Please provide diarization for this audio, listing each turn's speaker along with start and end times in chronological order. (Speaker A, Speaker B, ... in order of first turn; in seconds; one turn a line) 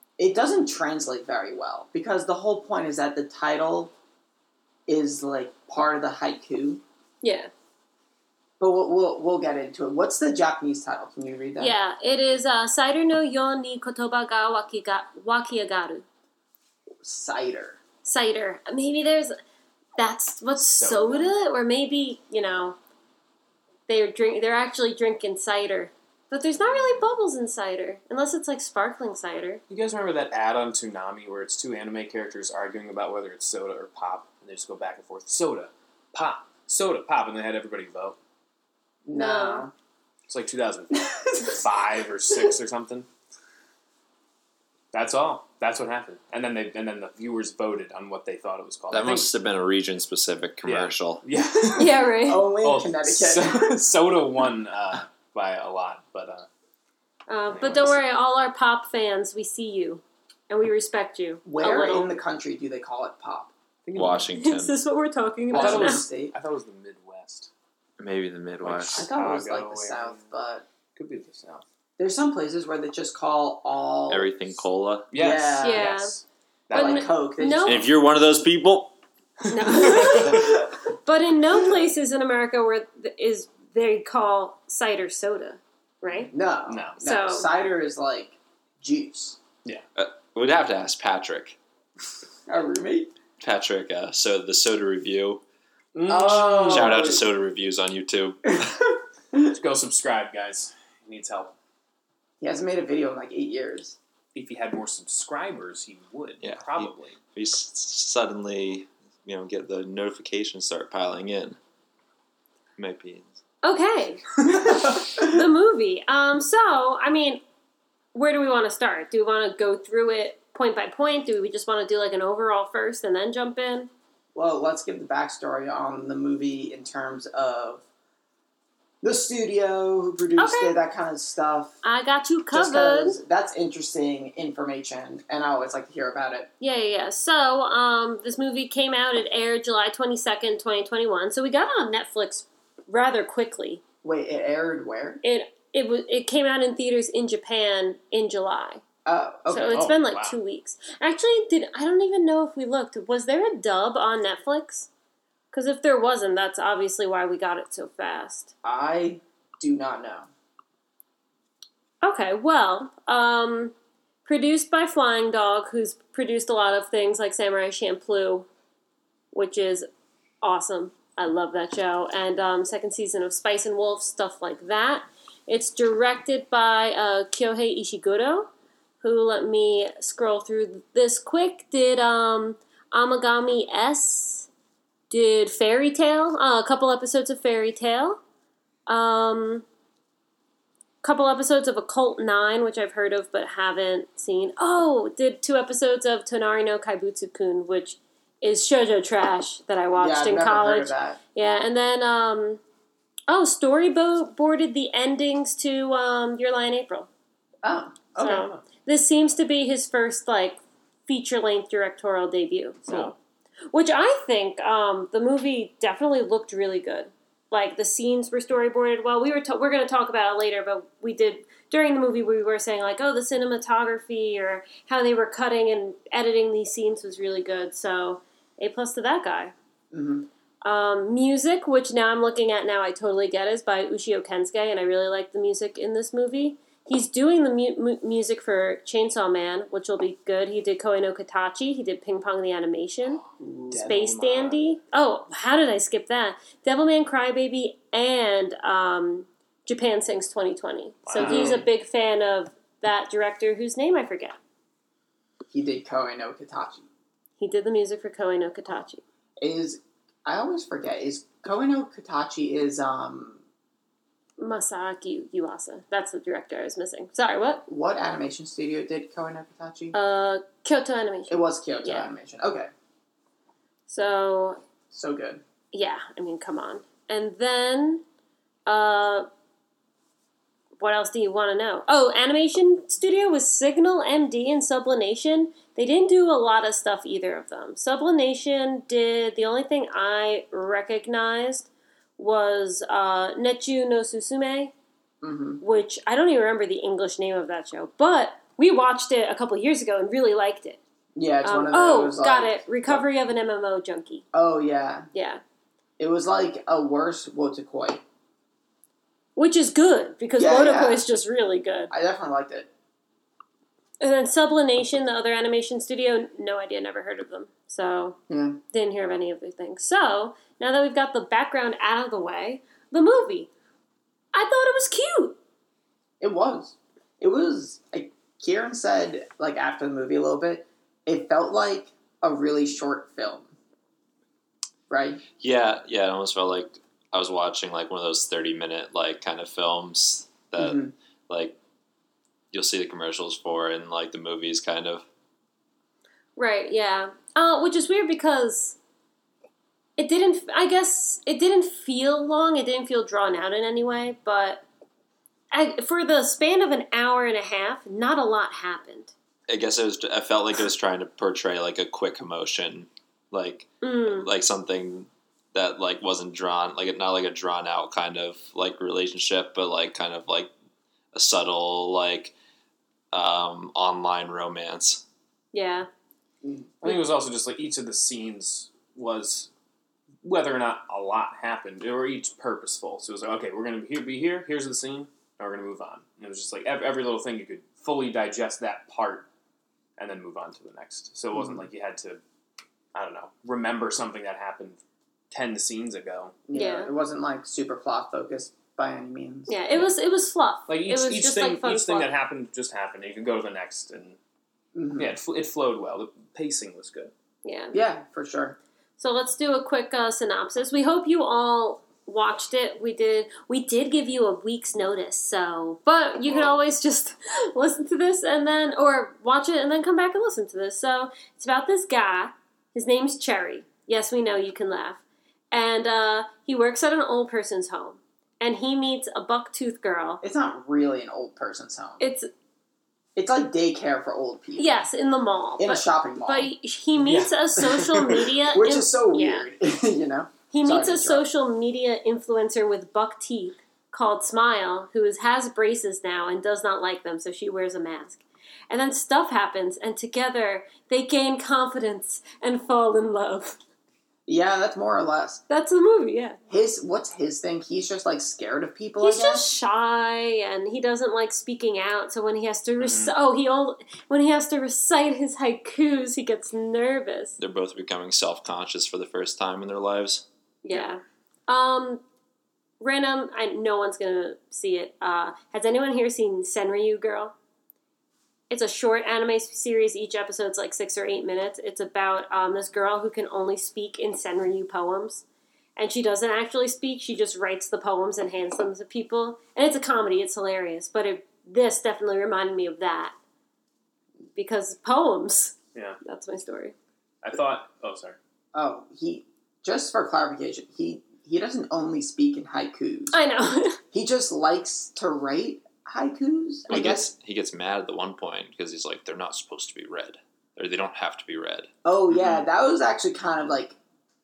Speaker A: 0.2-3.9
Speaker A: 4.9-6.8
Speaker B: 7.2-7.5
Speaker A: 8.6-11.7
Speaker B: 11.6-16.1
Speaker A: 17.0-17.8
Speaker B: 18.0-19.4
Speaker B: 20.0-22.8
Speaker C: 20.8-21.3
Speaker B: 23.9-29.6
Speaker C: 29.7-38.2
Speaker A: 39.0-39.7
Speaker B: 39.1-39.7
Speaker C: 40.3-43.1
Speaker A: 40.9-41.8
Speaker C: 44.9-49.3
Speaker D: 48.9-51.2
Speaker C: 50.6-52.0
Speaker B: 51.8-52.5
Speaker A: 52.0-53.8
Speaker C: 52.6-56.5
Speaker B: 57.3-62.1
Speaker C: 57.5-58.0
Speaker A: 61.4-63.5
Speaker C: 63.9-64.3
Speaker D: 63.9-64.8
Speaker B: 64.4-66.0
Speaker A: 65.5-66.3
Speaker C: 65.5-67.5
Speaker D: 68.0-69.0
Speaker C: 68.6-70.2
Speaker A: 68.9-70.6
Speaker C: 71.0-71.6
Speaker A: 72.0-74.3
Speaker D: 74.1-75.1
Speaker C: 75.1-77.2
Speaker A: 75.1-76.0
Speaker B: 75.6-76.1
Speaker A: 76.7-77.9
Speaker B: 76.7-77.8
Speaker D: 77.6-78.9
Speaker B: 79.5-86.3
Speaker C: 79.6-80.4
Speaker A: 79.8-80.8
Speaker A: 86.3-89.4
Speaker C: 86.7-87.0
Speaker B: 87.0-87.5
Speaker D: 90.0-91.6
Speaker A: 92.5-93.1
Speaker D: 93.4-95.4
Speaker C: 95.9-97.2
Speaker A: 96.1-97.3
Speaker D: 96.7-98.7
Speaker A: 98.6-99.5
Speaker C: 99.5-101.5
Speaker A: 102.4-104.0
Speaker C: 104.3-107.2
Speaker D: 106.4-111.6
Speaker D: 112.8-113.4
Speaker B: 113.6-114.2
Speaker A: 114.6-115.3
Speaker B: 115.1-117.4
Speaker B: 118.1-123.9
Speaker A: 124.3-127.8
Speaker A: 129.0-131.8
Speaker B: 130.4-130.8
Speaker B: 131.8-133.2
Speaker A: 132.5-136.5
Speaker B: 136.6-143.8
Speaker A: 144.0-145.2
Speaker B: 145.2-148.8
Speaker A: 149.1-149.9
Speaker B: 149.5-154.9
Speaker C: 149.7-150.3
Speaker B: 155.5-158.5
Speaker A: 158.6-160.3
Speaker B: 162.0-163.7
Speaker B: 164.2-168.5
Speaker B: 169.3-169.9
Speaker B: 170.4-178.5
Speaker B: 179.0-184.5
Speaker B: 185.1-188.2
Speaker B: 188.9-189.7
Speaker B: 191.0-202.6
Speaker A: 199.9-201.2
Speaker B: 203.3-207.1
Speaker A: 207.6-208.5
Speaker B: 208.2-213.1
Speaker C: 212.9-213.1
Speaker B: 213.7-229.5
Speaker A: 229.9-230.3
Speaker B: 230.6-243.2
Speaker A: 243.4-244.0
Speaker C: 243.7-244.7
Speaker B: 243.8-254.4
Speaker C: 251.1-251.6
Speaker A: 251.2-251.7
Speaker A: 255.5-256.9
Speaker B: 257.4-259.0
Speaker A: 259.4-263.4
Speaker B: 264.4-267.6
Speaker A: 267.7-269.9
Speaker B: 269.9-272.1
Speaker A: 271.3-272.7
Speaker B: 273.9-274.6
Speaker A: 274.9-275.4
Speaker B: 275.7-278.0
Speaker B: 278.6-279.3
Speaker B: 280.8-294.7
Speaker A: 295.2-295.6
Speaker B: 295.6-300.8
Speaker A: 301.1-303.1
Speaker B: 301.4-304.2
Speaker A: 304.3-305.1
Speaker B: 305.1-305.4
Speaker A: 306.0-308.0
Speaker B: 309.4-311.9
Speaker A: 310.4-311.0
Speaker A: 311.9-312.7
Speaker B: 314.0-318.2
Speaker A: 318.3-318.6
Speaker B: 318.7-323.5
Speaker B: 324.3-325.4
Speaker A: 326.2-333.5
Speaker A: 334.9-335.2
Speaker D: 335.4-341.6
Speaker A: 340.6-340.9
Speaker D: 342.5-345.1
Speaker B: 346.4-348.8
Speaker B: 350.0-354.6
Speaker B: 355.5-359.1
Speaker D: 359.5-370.5
Speaker B: 363.8-364.3
Speaker D: 371.1-372.3
Speaker D: 373.1-375.0
Speaker B: 375.5-375.9
Speaker A: 376.4-376.7
Speaker C: 376.8-379.5
Speaker C: 380.2-389.3
Speaker C: 390.0-392.2
Speaker A: 391.3-391.7
Speaker C: 392.9-396.4
Speaker A: 396.5-399.6
Speaker B: 396.5-396.9
Speaker B: 399.5-402.1
Speaker C: 400.7-404.2
Speaker A: 404.7-405.2
Speaker C: 405.0-407.1
Speaker B: 407.4-407.8
Speaker A: 407.7-408.6
Speaker B: 409.0-430.2
Speaker C: 416.3-416.6
Speaker A: 430.2-432.1
Speaker B: 432.0-432.3
Speaker A: 433.1-434.8
Speaker B: 434.6-439.5
Speaker A: 435.6-436.5
Speaker C: 437.0-438.2
Speaker A: 438.5-441.2
Speaker B: 440.5-453.6
Speaker A: 454.3-455.4
Speaker B: 455.5-456.4
Speaker A: 456.5-459.5
Speaker B: 459.0-467.4
Speaker C: 462.8-463.1
Speaker D: 467.4-470.2
Speaker B: 470.6-472.0
Speaker B: 472.8-477.3
Speaker B: 478.5-485.2
Speaker B: 485.8-493.1
Speaker B: 494.3-496.7
Speaker C: 497.2-498.2
Speaker A: 498.5-503.1
Speaker B: 503.1-503.8
Speaker A: 503.9-507.1
Speaker D: 506.7-511.7
Speaker A: 511.8-513.8